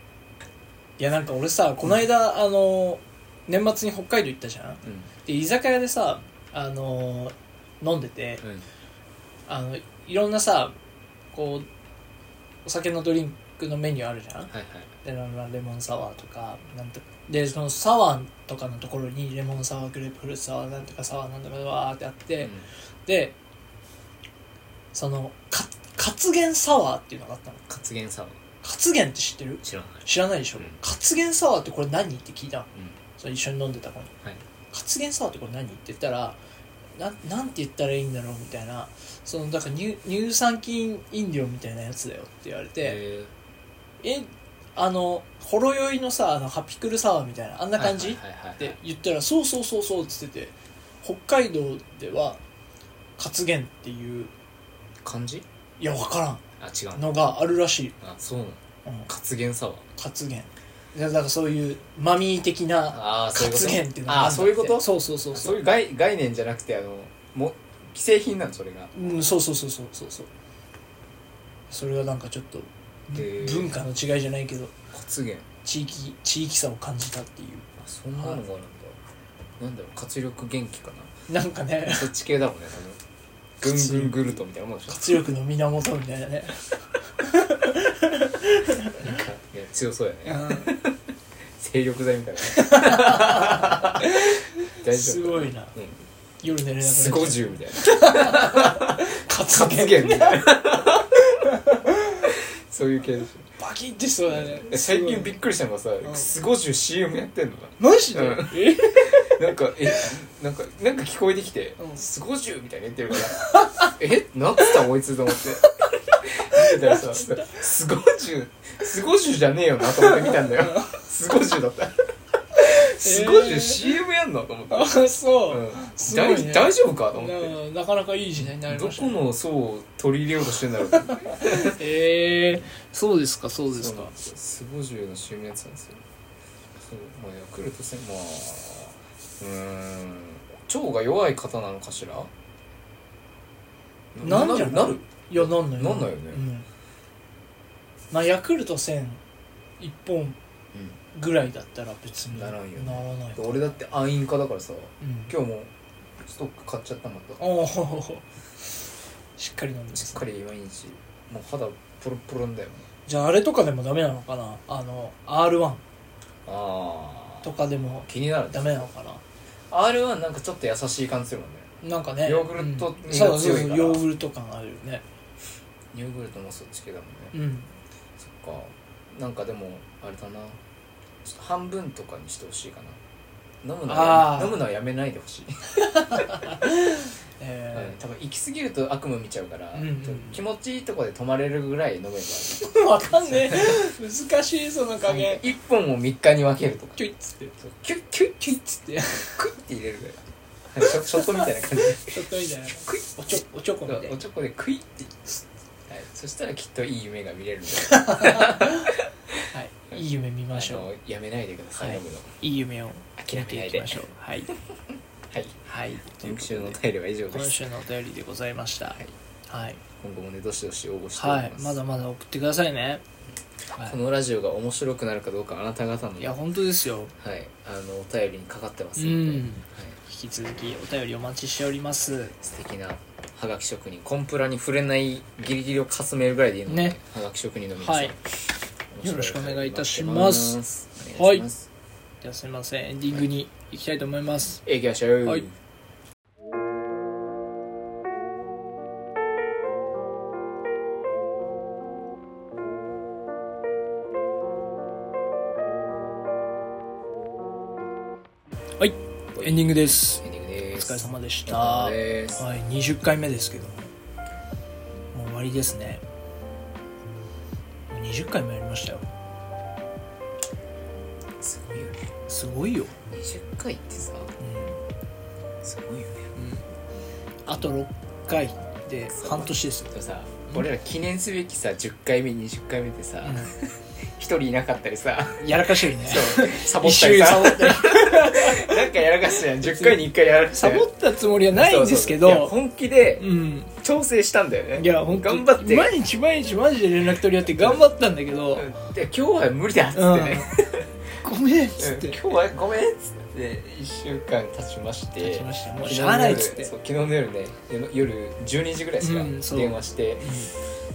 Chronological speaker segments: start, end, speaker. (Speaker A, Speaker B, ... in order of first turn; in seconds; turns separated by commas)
Speaker A: 1.0-8.4, Speaker B: 4.8-5.1, Speaker A: 9.5-10.7, Speaker A: 11.3-11.7, Speaker A: 12.6-14.5, Speaker B: 14.5-14.9, Speaker A: 15.0-22.5, Speaker B: 22.4-22.6, Speaker A: 23.1-23.4, Speaker A: 24.9-27.6, Speaker B: 27.7-28.4, Speaker A: 28.6-34.1, Speaker B: 29.6-30.1, Speaker A: 34.7-36.4, Speaker A: 37.0-43.0, Speaker B: 42.8-43.3, Speaker A: 44.0-52.4, Speaker B: 47.8-48.8, Speaker A: 53.2-54.3, Speaker B: 55.0-55.5, Speaker A: 55.8-56.4, Speaker B: 56.6-57.1, Speaker A: 56.9-57.9, Speaker B: 58.0-59.8, Speaker A: 60.0-65.6, Speaker B: 62.9-68.9, Speaker A: 68.9-70.3, Speaker A: 71.7-74.7, Speaker B: 73.1-73.8, Speaker B: 74.9-75.5, Speaker A: 75.6-78.4, Speaker B: 77.8-79.0, Speaker B: 79.6-81.1, Speaker A: 81.3-82.1, Speaker B: 81.8-83.0, Speaker B: 83.6-85.1, Speaker A: 83.6-84.4, Speaker A: 84.9-89.2, Speaker B: 89.0-91.0, Speaker A: 90.2-90.8, Speaker B: 91.5-96.0, Speaker A: 92.5-95.7, Speaker A: 96.4-102.3, Speaker B: 96.8-101.2, Speaker B: 102.2-103.5, Speaker A: 103.6-105.3, Speaker B: 104.3-122.0, Speaker A: 107.8-110.0, Speaker A: 113.5-113.9, Speaker A: 116.5-117.6, Speaker A: 119.8-121.0, Speaker B: 122.5-127.5, Speaker A: 122.6-123.9, Speaker A: 124.7-129.2, Speaker B: 128.7-131.8, Speaker A: 130.9-134.1, Speaker B: 133.7-136.0, Speaker B: 136.7-142.3, Speaker B: 144.1-146.4, Speaker A: 144.2-146.7, Speaker A: 148.1-149.2, Speaker A: 149.8-150.4, Speaker B: 150.7-151.0, Speaker A: 151.1-153.7, Speaker B: 152.3-155.7, Speaker A: 155.0-155.3, Speaker B: 156.2-157.4, Speaker A: 157.4-158.2, Speaker A: 159.4-160.2, Speaker B: 159.9-162.9, Speaker A: 163.1-165.8, Speaker B: 166.4-168.9, Speaker A: 167.4-169.2, Speaker B: 169.7-171.7, Speaker A: 171.8-175.0, Speaker B: 172.2-174.0, Speaker B: 175.9-177.3, Speaker A: 177.3-177.7, Speaker B: 178.2-180.6, Speaker B: 181.2-183.0, Speaker B: 183.6-186.2, Speaker A: 183.8-184.6, Speaker A: 185.9-188.0, Speaker B: 187.7-193.8, Speaker A: 189.8-190.4, Speaker A: 192.5-195.4, Speaker B: 195.0-197.0, Speaker A: 197.0-197.5, Speaker B: 197.6-202.2, Speaker A: 198.6-199.4, Speaker A: 201.9-204.2, Speaker B: 202.9-210.0, Speaker A: 207.9-208.9, Speaker A: 209.5-210.9, Speaker B: 210.5-212.4, Speaker A: 211.8-214.5, Speaker B: 213.2-214.0, Speaker B: 215.3-215.6, Speaker A: 215.7-216.8, Speaker B: 216.2-217.6, Speaker A: 217.3-219.8, Speaker B: 220.0-221.8, Speaker A: 221.2-223.0, Speaker B: 223.8-226.4, Speaker A: 226.2-227.1, Speaker B: 227.2-230.0, Speaker A: 229.0-232.3, Speaker B: 232.4-238.4, Speaker A: 236.7-237.0, Speaker A: 237.8-238.1, Speaker B: 238.9-241.7, Speaker A: 239.0-240.6, Speaker A: 241.1-241.4, Speaker A: 242.2-244.6, Speaker B: 244.6-245.5, Speaker A: 258.8-263.9, Speaker B: 259.3-262.4, Speaker A: 265.1-266.0, Speaker A: 267.9-269.0, Speaker B: 271.4-272.1, Speaker A: 272.3-272.9, Speaker B: 273.1-274.3, Speaker A: 274.4-274.8, Speaker B: 275.6-276.3, Speaker A: 276.3-276.7, Speaker A: 277.4-279.9, Speaker B: 279.1-290.9, Speaker A: 283.2-283.5, Speaker A: 285.4-290.0, Speaker A: 290.5-292.6, Speaker B: 291.5-295.9, Speaker A: 293.2-293.7, Speaker A: 294.8-298.7, Speaker B: 297.5-297.8, Speaker B: 298.5-300.9, Speaker A: 299.9-300.6, Speaker A: 301.2-302.2, Speaker B: 301.8-310.3, Speaker A: 305.2-306.7, Speaker A: 309.0-310.5